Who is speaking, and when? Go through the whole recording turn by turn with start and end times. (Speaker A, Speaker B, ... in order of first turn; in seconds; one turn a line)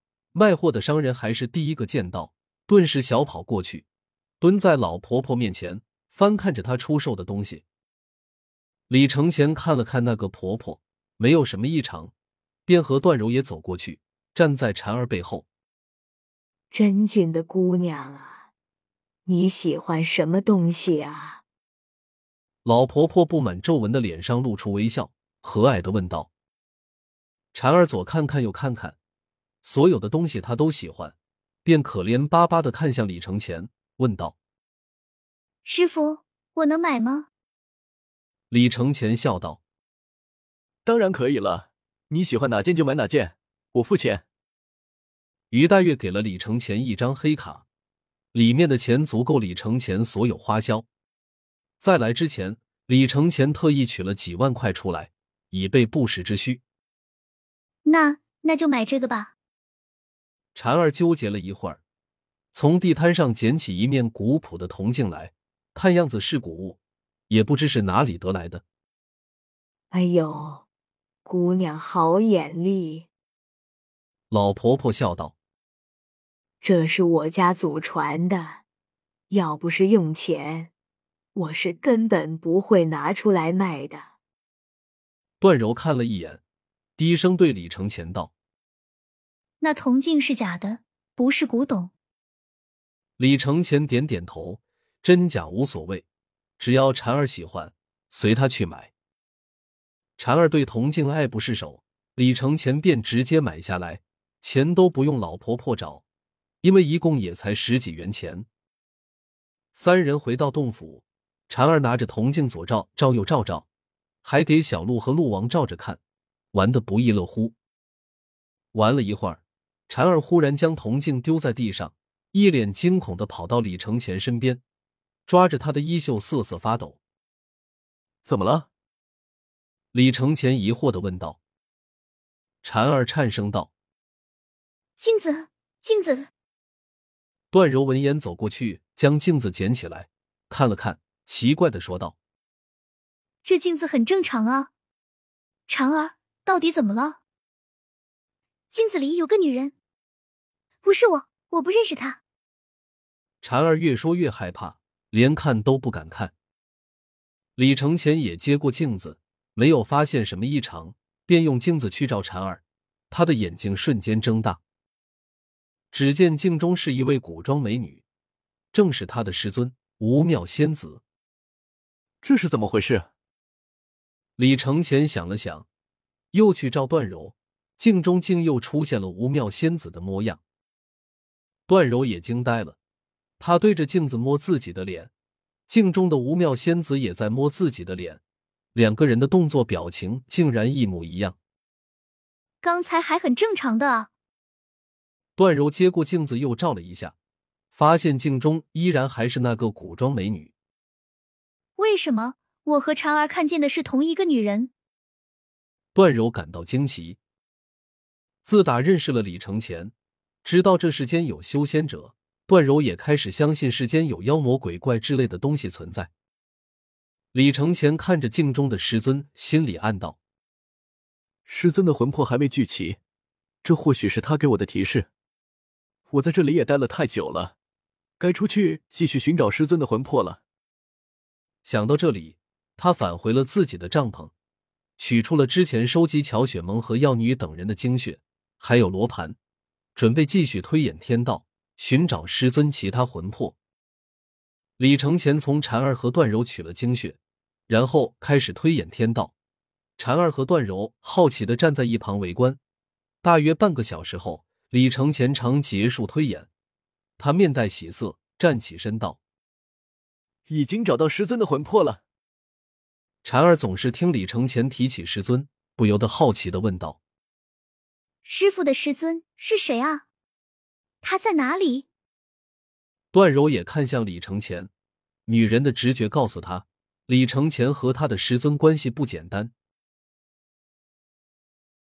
Speaker A: 0.3-3.9
Speaker A: 4.4-7.6
Speaker A: 8.9-12.1
Speaker A: 12.7-15.5
Speaker B: 16.7-18.5
Speaker B: 19.3-21.4
Speaker A: 22.6-26.3
Speaker A: 27.5-29.0
Speaker A: 29.6-34.4
Speaker C: 35.6-37.3
Speaker A: 38.5-39.6
Speaker D: 40.9-44.2
Speaker A: 45.5-47.6
Speaker A: 48.3-50.9
Speaker A: 51.8-56.6
Speaker C: 57.9-59.3
Speaker A: 60.5-61.8
Speaker A: 62.5-66.8
Speaker A: 67.3-68.6
Speaker B: 69.9-70.7
Speaker B: 71.2-73.1
Speaker A: 74.3-75.3
Speaker B: 76.6-78.6
Speaker B: 79.3-80.7
Speaker B: 81.3-84.1
Speaker A: 85.4-86.4
Speaker A: 87.0-88.3
Speaker C: 89.6-91.9
Speaker A: 93.2-96.0
Speaker A: 96.6-98.9
Speaker A: 100.2-106.0
Speaker A: 106.6-108.5
Speaker A: 109.7-113.7
Speaker A: 114.2-116.0
Speaker A: 116.5-117.5
Speaker A: 118.7-124.6
Speaker A: 125.3-127.0
Speaker D: 128.2-128.7
Speaker A: 129.9-131.4
Speaker A: 132.6-133.7
Speaker C: 135.0-136.3
Speaker A: 137.5-142.2
Speaker C: 143.4-144.7
Speaker C: 145.7-147.2
Speaker C: 148.7-149.7
Speaker C: 150.8-152.2
Speaker A: 153.4-156.3
Speaker A: 157.6-164.6
Speaker A: 165.9-168.0
Speaker A: 168.7-171.0
Speaker D: 172.2-173.1
Speaker A: 174.4-175.7
Speaker A: 176.3-180.4
Speaker A: 181.7-182.8
Speaker A: 183.4-185.1
Speaker A: 185.7-188.2
Speaker A: 188.8-191.4
Speaker C: 192.6-194.1
Speaker A: 195.4-197.2
Speaker A: 197.7-200.5
Speaker C: 201.8-204.7
Speaker A: 205.9-207.2
Speaker A: 208.4-209.9
Speaker A: 210.4-216.1
Speaker A: 217.3-220.2
Speaker D: 221.5-223.0
Speaker D: 223.6-225.1
Speaker D: 226.1-227.6
Speaker D: 228.2-230.4
Speaker A: 231.6-234.3
Speaker A: 235.0-239.4
Speaker A: 240.0-243.6
Speaker A: 244.8-247.2
Speaker A: 247.7-249.3
Speaker A: 250.0-252.6
Speaker A: 253.2-256.5
Speaker A: 257.2-259.2
Speaker D: 260.5-262.0
Speaker A: 263.2-267.0
Speaker C: 268.2-270.1
Speaker C: 271.0-271.9
Speaker A: 273.1-274.7
Speaker A: 275.3-279.5